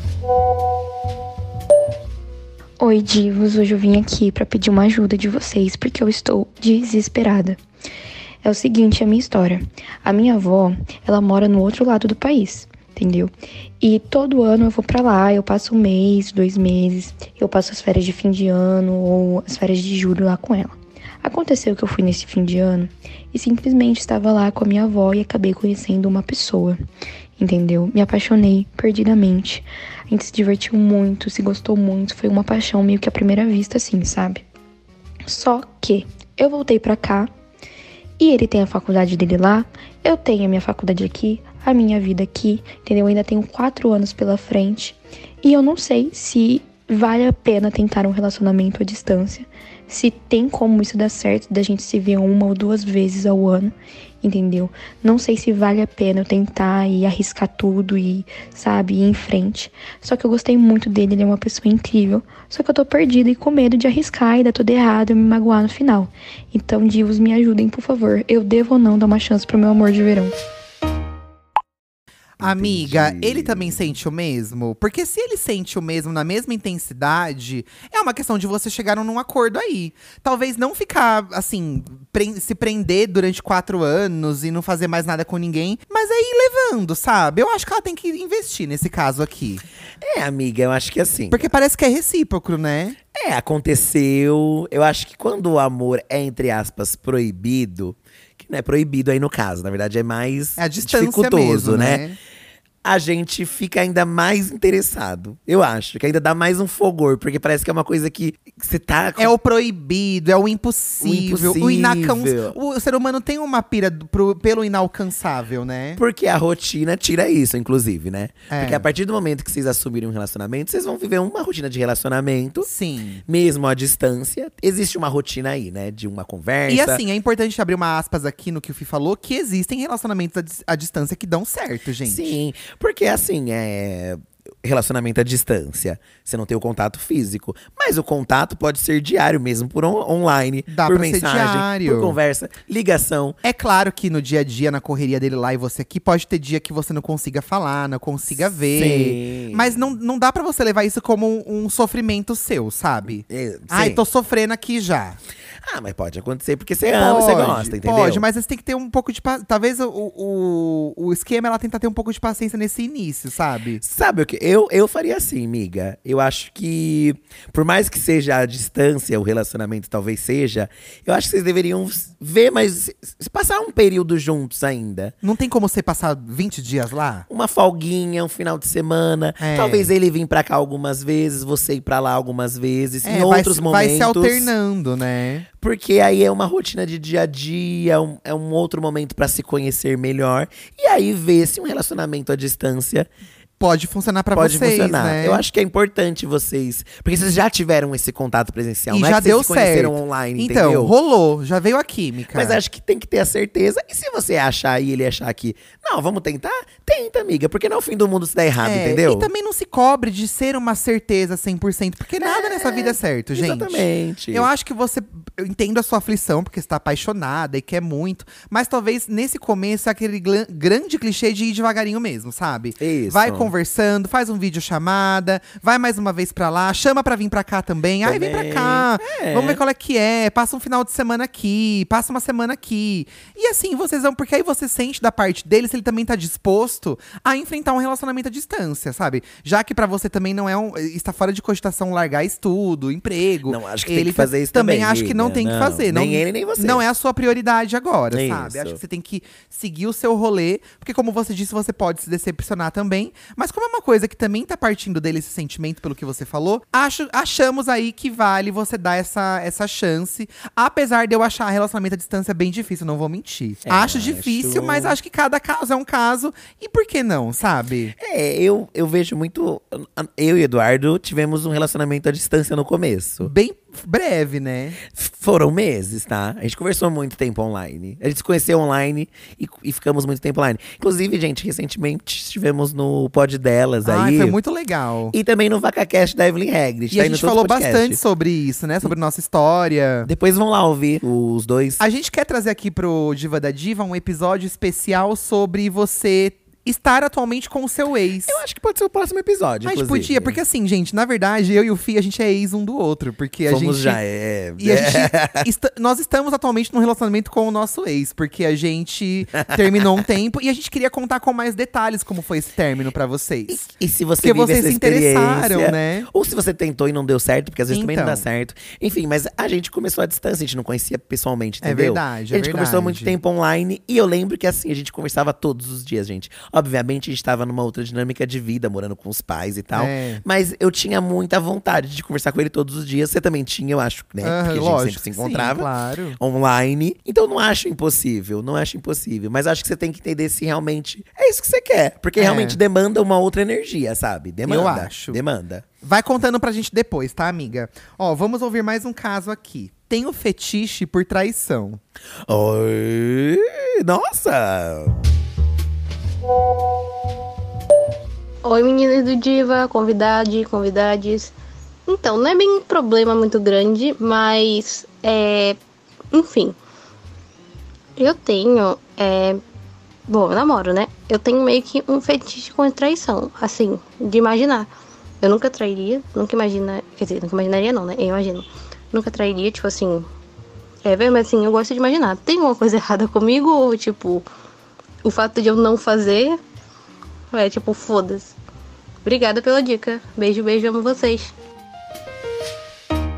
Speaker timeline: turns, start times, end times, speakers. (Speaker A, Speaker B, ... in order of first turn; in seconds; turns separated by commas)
Speaker A: 2.8-7.6, Speaker A: 8.4-26.8, Speaker A: 27.4-34.5, Speaker A: 35.2-37.3, Speaker A: 38.2-70.3, Speaker B: 72.4-89.6, Speaker C: 72.4-73.9, Speaker C: 90.0-91.5, Speaker B: 91.3-93.0, Speaker C: 93.1-102.0, Speaker B: 100.6-102.2, Speaker C: 102.8-109.3, Speaker B: 109.2-116.0, Speaker C: 111.0-112.6, Speaker C: 116.0-122.7, Speaker B: 118.5-118.9, Speaker B: 122.6-123.2, Speaker C: 123.3-127.0, Speaker B: 126.7-132.4, Speaker C: 132.0-143.4, Speaker B: 140.7-142.2, Speaker B: 143.4-155.2, Speaker C: 148.7-149.8, Speaker C: 153.2-154.0, Speaker C: 155.6-158.2, Speaker B: 156.8-163.8, Speaker C: 163.8-175.1, Speaker B: 175.2-177.3, Speaker C: 177.3-184.5, Speaker B: 179.4-179.9, Speaker B: 183.0-185.5, Speaker C: 185.6-193.1, Speaker B: 193.6-195.4, Speaker C: 194.3-200.9, Speaker B: 198.9-202.6, Speaker C: 202.3-209.3, Speaker B: 208.6-267.9, Speaker C: 212.2-214.5, Speaker C: 222.8-223.5, Speaker C: 228.0-229.6, Speaker C: 243.4-246.8, Speaker C: 248.1-248.8, Speaker C: 263.7-265.0, Speaker C: 268.0-273.3, Speaker B: 273.2-274.8, Speaker C: 274.9-284.4, Speaker B: 283.8-285.1, Speaker C: 285.1-288.0, Speaker B: 286.9-290.1, Speaker C: 290.1-291.8, Speaker B: 291.8-298.4, Speaker C: 298.3-300.4, Speaker B: 299.6-304.0, Speaker C: 303.5-305.5, Speaker B: 304.6-313.7, Speaker C: 309.4-309.7, Speaker C: 313.5-345.6, Speaker B: 314.2-316.1, Speaker B: 317.7-318.2, Speaker B: 321.6-323.1, Speaker B: 329.7-330.2, Speaker B: 334.2-336.2, Speaker B: 342.2-342.6, Speaker B: 344.5-345.2, Speaker B: 345.8-351.8, Speaker C: 352.3-355.0, Speaker D: 358.4-361.3, Speaker D: 361.9-365.6, Speaker D: 366.1-366.6, Speaker D: 368.0-369.4, Speaker D: 370.1-374.7, Speaker D: 375.2-380.1, Speaker D: 380.9-384.3, Speaker D: 385.0-386.4, Speaker D: 387.3-388.3, Speaker D: 389.1-391.3